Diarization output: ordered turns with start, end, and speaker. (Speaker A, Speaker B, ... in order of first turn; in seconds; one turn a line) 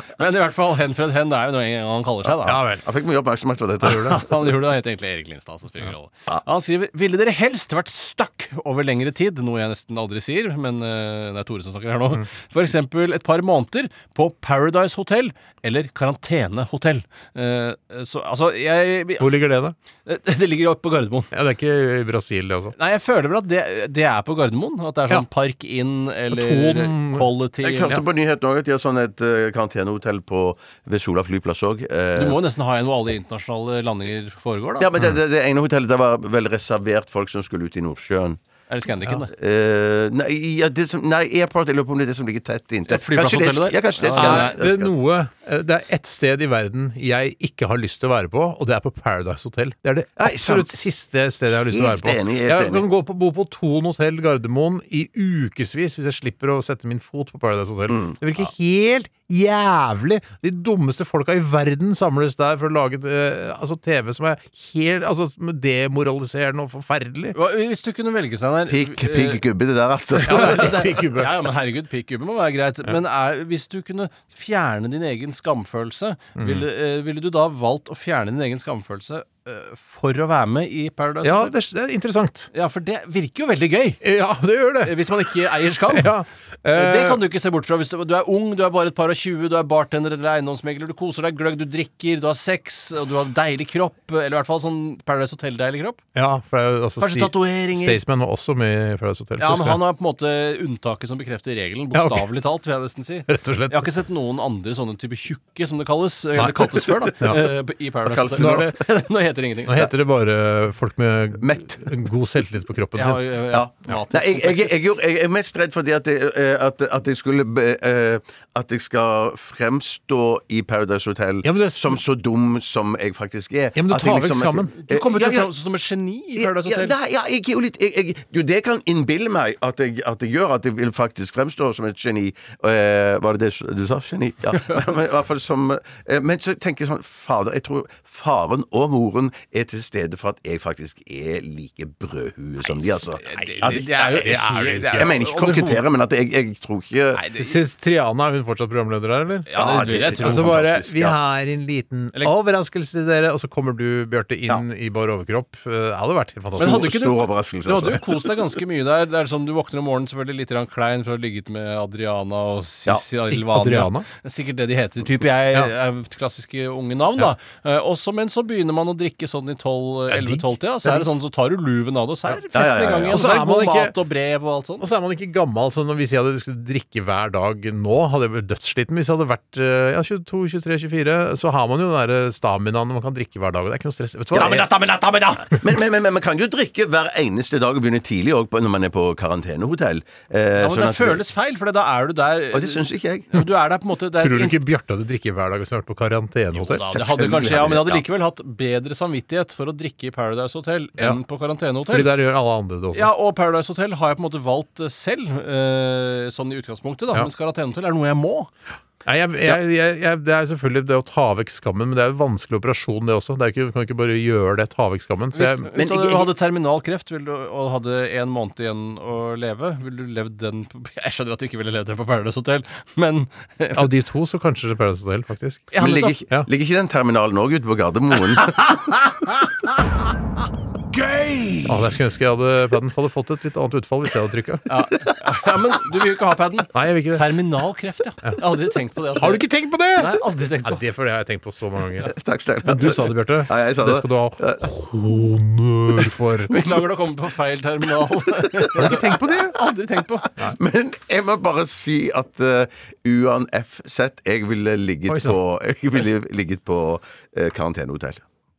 Speaker A: 0.2-2.6
Speaker B: 2.4-2.9
Speaker C: 2.8-4.3
Speaker B: 3.8-4.2
Speaker A: 3.8-19.4
Speaker B: 19.2-19.8
Speaker A: 20.1-21.3
Speaker B: 21.3-22.8
Speaker A: 22.8-28.0
Speaker B: 26.3-27.3
Speaker C: 27.6-32.4
Speaker A: 32.2-34.9
Speaker C: 34.8-38.4
Speaker A: 38.7-39.3
Speaker C: 39.3-44.9
Speaker A: 42.9-44.6
Speaker B: 44.2-67.4
Speaker C: 50.2-50.9
Speaker C: 51.7-52.9
Speaker C: 57.9-58.1
Speaker A: 67.3-69.4
Speaker C: 68.7-70.8
Speaker A: 70.2-81.5
Speaker B: 70.3-71.3
Speaker B: 76.4-76.7
Speaker B: 81.2-82.5
Speaker A: 82.5-84.0
Speaker B: 84.0-85.3
Speaker A: 84.8-86.1
Speaker B: 85.9-87.2
Speaker A: 86.7-96.0
Speaker B: 96.2-99.8
Speaker A: 97.0-98.0
Speaker A: 99.4-109.9
Speaker B: 101.9-102.3
Speaker B: 103.3-103.9
Speaker C: 106.5-107.4
Speaker C: 108.0-108.8
Speaker B: 108.4-108.8
Speaker B: 109.7-113.3
Speaker C: 111.4-111.9
Speaker A: 113.0-114.8
Speaker C: 113.5-125.5
Speaker B: 121.4-122.0
Speaker B: 123.8-124.7
Speaker A: 124.8-127.0
Speaker C: 126.4-144.3
Speaker A: 142.6-145.8
Speaker B: 143.4-145.1
Speaker C: 144.9-147.2
Speaker A: 147.2-147.6
Speaker B: 147.3-149.5
Speaker A: 149.5-150.6
Speaker C: 149.5-151.2
Speaker B: 150.2-156.9
Speaker C: 156.6-158.2
Speaker A: 156.6-174.9
Speaker B: 163.3-164.1
Speaker B: 170.1-170.4
Speaker C: 172.5-173.2
Speaker B: 173.1-173.9
Speaker B: 174.8-184.7
Speaker A: 184.3-185.6
Speaker C: 184.3-184.7
Speaker C: 185.5-191.2
Speaker A: 190.6-194.6
Speaker C: 192.5-193.3
Speaker B: 194.2-197.1
Speaker A: 196.6-202.1
Speaker C: 197.1-198.0
Speaker B: 201.9-203.1
Speaker A: 202.9-208.5
Speaker B: 209.1-215.7
Speaker A: 215.3-223.9
Speaker C: 215.8-216.3
Speaker B: 223.7-225.7
Speaker A: 225.7-226.2
Speaker C: 225.8-228.6
Speaker A: 231.0-231.6
Speaker B: 231.7-234.6
Speaker A: 234.7-239.4
Speaker B: 236.7-237.4
Speaker B: 239.2-242.1
Speaker A: 240.0-240.8
Speaker C: 242.0-244.7
Speaker B: 242.6-246.6
Speaker A: 246.5-250.3
Speaker C: 248.8-249.5
Speaker B: 248.8-249.5
Speaker C: 250.3-258.2
Speaker B: 255.1-255.4